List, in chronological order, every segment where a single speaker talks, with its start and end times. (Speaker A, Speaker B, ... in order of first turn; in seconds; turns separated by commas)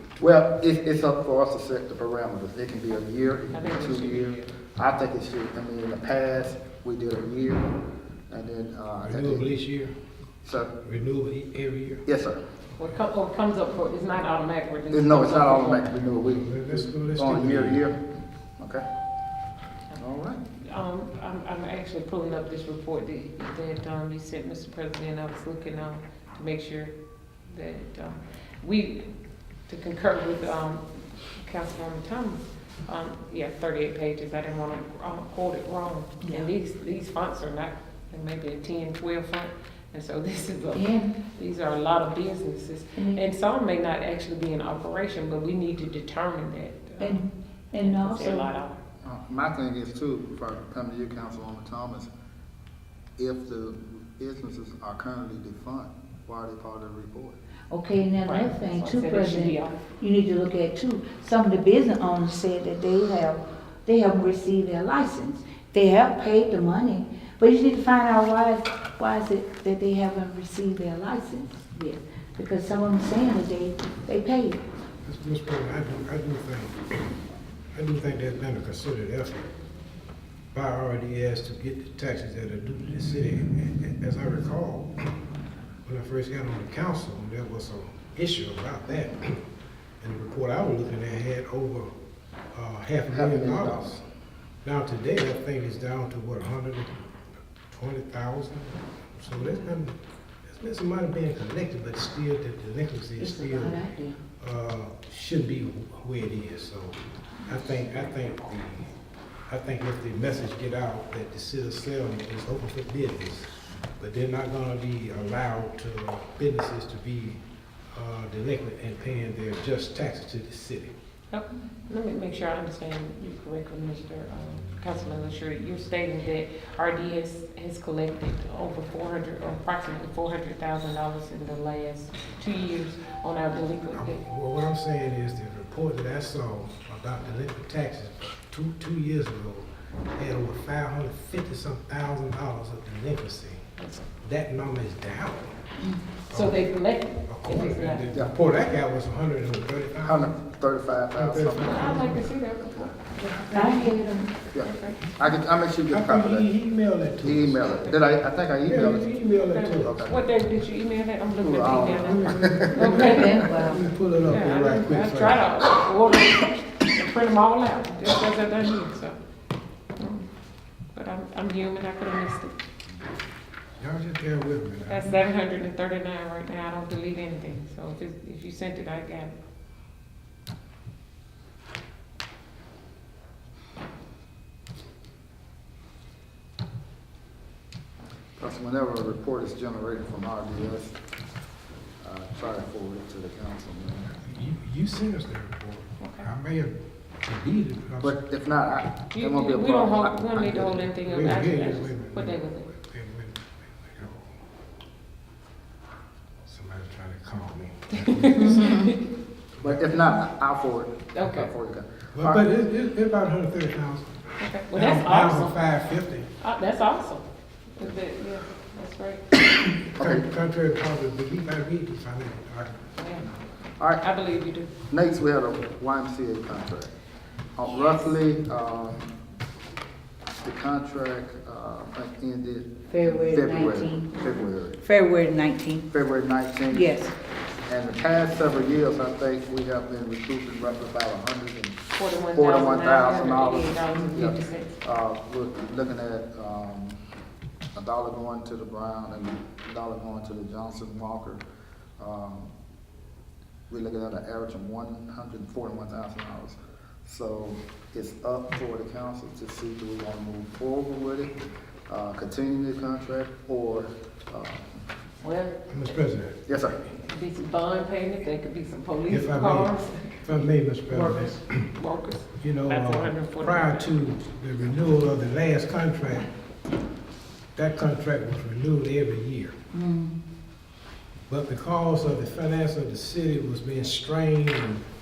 Speaker A: 0.2-7.7, Speaker B: 3.5-4.5, Speaker A: 8.3-9.6, Speaker C: 9.0-10.0, Speaker A: 10.4-10.7, Speaker C: 10.8-12.0, Speaker A: 12.1-12.4, Speaker B: 12.8-15.8, Speaker A: 14.9-18.0, Speaker C: 16.2-17.9, Speaker A: 18.6-18.9, Speaker A: 20.0-20.4, Speaker B: 20.6-29.1, Speaker B: 29.7-47.2, Speaker D: 36.2-36.5, Speaker D: 40.7-41.2, Speaker D: 43.0-43.2, Speaker D: 47.0-48.5, Speaker B: 47.8-48.8, Speaker A: 49.0-52.1, Speaker A: 53.2-57.4, Speaker D: 57.7-74.6, Speaker B: 58.2-59.9, Speaker C: 75.0-77.2, Speaker C: 77.7-79.5, Speaker C: 80.5-84.9, Speaker C: 85.8-89.4, Speaker C: 90.0-91.9, Speaker C: 92.5-94.0, Speaker A: 93.1-94.0, Speaker C: 94.6-97.0, Speaker C: 97.7-103.8, Speaker D: 103.2-104.2, Speaker C: 104.4-108.9, Speaker D: 107.4-108.0, Speaker C: 109.5-117.4, Speaker C: 117.9-120.9, Speaker B: 121.3-134.2, Speaker C: 133.9-143.7, Speaker B: 143.8-144.1, Speaker C: 144.2-145.6, Speaker C: 146.3-146.6, Speaker B: 146.3-148.1, Speaker C: 147.3-150.3, Speaker A: 150.0-151.9, Speaker C: 151.2-152.3, Speaker B: 151.6-155.2, Speaker D: 153.3-154.3, Speaker A: 154.5-156.5, Speaker C: 155.9-158.0, Speaker A: 157.2-159.1, Speaker C: 158.6-160.1, Speaker B: 159.4-169.2, Speaker A: 159.8-160.2, Speaker A: 161.4-162.8, Speaker C: 161.9-165.5, Speaker D: 162.7-163.9, Speaker B: 170.0-170.3, Speaker B: 170.9-172.6, Speaker C: 173.8-175.1, Speaker B: 174.9-179.4, Speaker A: 188.4-190.9, Speaker A: 192.0-194.1, Speaker C: 194.1-198.2, Speaker B: 196.0-196.3, Speaker A: 198.0-200.9, Speaker B: 199.1-202.7, Speaker C: 201.0-204.3, Speaker C: 206.4-208.8, Speaker B: 207.9-209.1, Speaker D: 208.5-208.9, Speaker C: 209.6-210.0, Speaker A: 209.6-212.4, Speaker B: 211.1-211.5, Speaker C: 212.1-216.3, Speaker B: 214.4-215.6, Speaker B: 216.4-219.5, Speaker C: 219.9-222.8, Speaker A: 220.0-220.2, Speaker B: 223.0-223.3, Speaker B: 223.9-224.7, Speaker A: 224.9-226.9, Speaker A: 227.6-229.1, Speaker B: 227.7-228.1, Speaker A: 230.4-234.8, Speaker D: 232.9-234.3, Speaker D: 234.8-235.9, Speaker A: 235.9-236.9, Speaker D: 236.7-237.1, Speaker A: 237.7-241.8, Speaker B: 241.9-244.8, Speaker A: 242.3-247.0, Speaker A: 247.8-251.4, Speaker A: 252.0-252.5, Speaker A: 253.7-264.8, Speaker B: 265.2-265.5, Speaker C: 265.7-266.6, Speaker A: 266.5-266.8, Speaker B: 267.0-270.3, Speaker C: 269.1-271.7, Speaker B: 270.9-273.9, Speaker C: 272.4-276.3, Speaker C: 277.6-279.6, Speaker D: 279.7-280.2, Speaker C: 281.3-284.8